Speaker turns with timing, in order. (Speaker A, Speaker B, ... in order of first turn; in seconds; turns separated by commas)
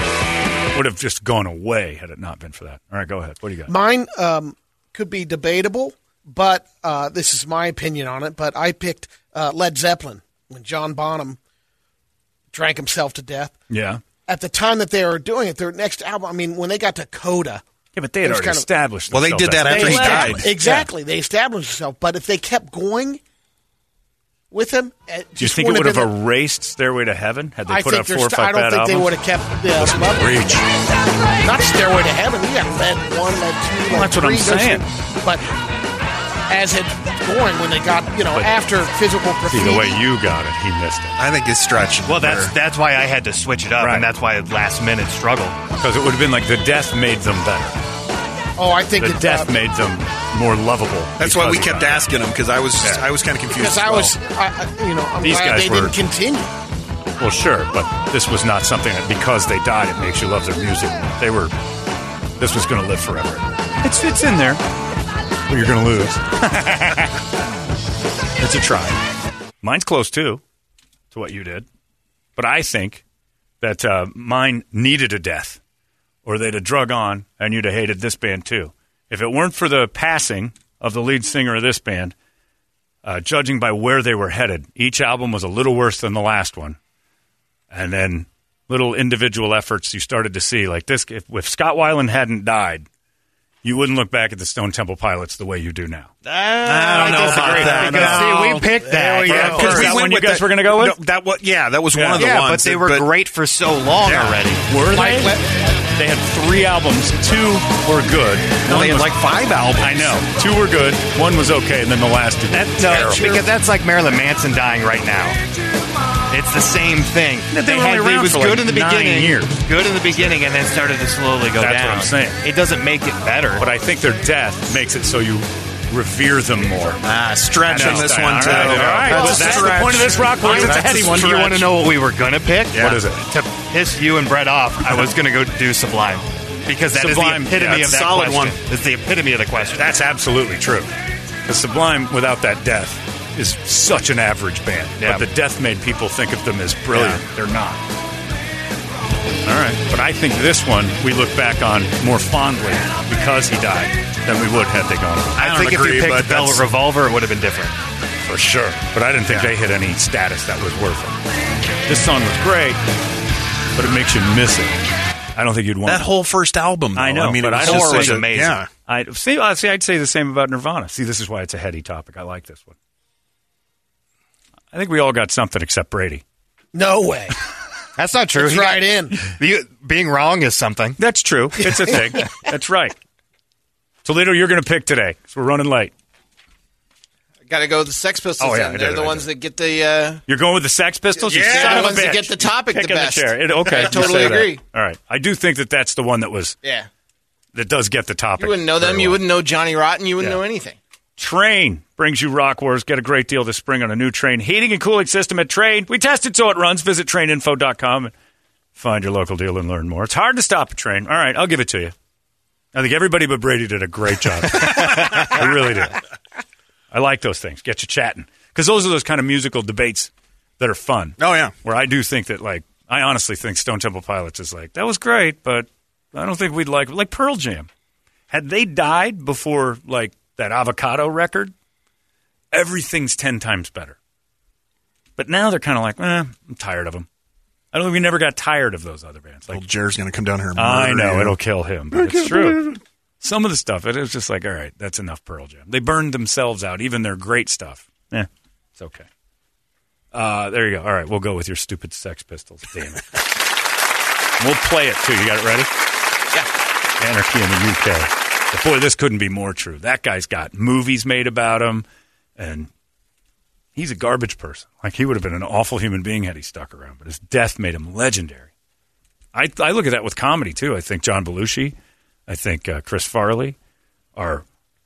Speaker A: 0.7-3.7, Speaker B: 3.7-11.4, Speaker B: 12.5-13.5, Speaker A: 13.7-14.0, Speaker B: 14.3-17.6, Speaker A: 17.9-20.9, Speaker B: 18.2-18.7, Speaker C: 19.1-20.5, Speaker B: 19.6-23.2, Speaker B: 24.5-26.1, Speaker A: 25.4-29.1, Speaker B: 27.7-30.3, Speaker A: 29.7-30.6, Speaker B: 31.4-35.5, Speaker A: 33.9-34.9, Speaker B: 36.5-40.0, Speaker A: 39.5-41.2, Speaker C: 41.2-42.5, Speaker D: 42.0-45.6, Speaker A: 43.8-44.1, Speaker A: 45.8-47.8, Speaker B: 48.5-49.5, Speaker A: 49.0-52.1, Speaker C: 51.2-54.1, Speaker B: 53.5-56.5, Speaker A: 55.2-56.0, Speaker A: 57.2-61.5, Speaker A: 62.4-64.6, Speaker A: 65.5-67.2, Speaker A: 68.4-69.0, Speaker A: 69.6-70.4, Speaker A: 71.1-71.7, Speaker A: 72.3-73.0, Speaker A: 73.6-75.6, Speaker A: 76.2-82.1, Speaker A: 83.0-86.8, Speaker A: 87.7-92.9, Speaker A: 93.6-96.1, Speaker D: 96.2-99.7, Speaker C: 96.6-103.1, Speaker A: 97.1-98.3, Speaker B: 97.9-100.0, Speaker A: 99.2-101.0, Speaker A: 101.9-102.3, Speaker D: 102.2-104.6, Speaker A: 104.0-105.3, Speaker B: 104.9-105.5, Speaker A: 105.9-109.2, Speaker C: 108.7-110.2, Speaker A: 109.8-113.5, Speaker D: 112.5-115.4, Speaker D: 116.3-123.7, Speaker A: 117.5-119.6, Speaker A: 121.6-122.4, Speaker A: 123.6-127.0, Speaker C: 127.0-131.3, Speaker A: 127.7-131.7, Speaker D: 127.7-129.7, Speaker B: 129.1-129.6, Speaker D: 130.4-139.8, Speaker A: 132.7-133.2, Speaker A: 136.9-137.9, Speaker C: 137.7-138.6, Speaker A: 139.7-140.9, Speaker A: 141.4-147.8, Speaker D: 145.0-145.2, Speaker D: 146.9-147.2, Speaker A: 149.4-155.4, Speaker D: 155.3-157.8, Speaker C: 155.4-156.6, Speaker A: 158.2-161.2, Speaker C: 159.3-159.5, Speaker A: 161.8-162.8, Speaker A: 163.7-164.8, Speaker A: 165.3-166.1, Speaker C: 165.8-168.7, Speaker A: 166.9-168.3, Speaker D: 167.6-168.6, Speaker A: 168.8-172.8, Speaker A: 174.7-176.2, Speaker B: 176.7-177.3, Speaker D: 178.0-181.0, Speaker B: 178.3-179.2, Speaker A: 181.0-182.9, Speaker D: 181.7-182.2, Speaker A: 184.0-185.9, Speaker E: 187.4-190.2, Speaker A: 188.4-189.3, Speaker A: 190.3-196.6, Speaker E: 191.1-194.6, Speaker E: 196.6-196.9, Speaker A: 197.5-199.2, Speaker E: 198.4-200.8, Speaker A: 201.2-208.1, Speaker A: 208.7-211.9, Speaker A: 212.7-216.0, Speaker A: 216.9-227.7, Speaker C: 221.2-221.5, Speaker A: 228.3-231.5, Speaker A: 232.5-234.0, Speaker A: 235.2-237.1, Speaker A: 237.7-239.6, Speaker C: 239.5-241.4, Speaker A: 240.6-249.1, Speaker C: 241.9-242.6, Speaker A: 250.1-253.3, Speaker A: 254.4-255.7, Speaker A: 257.0-261.9, Speaker A: 262.4-262.7, Speaker A: 263.7-268.5, Speaker A: 269.3-271.7, Speaker A: 272.3-273.6, Speaker A: 274.1-274.4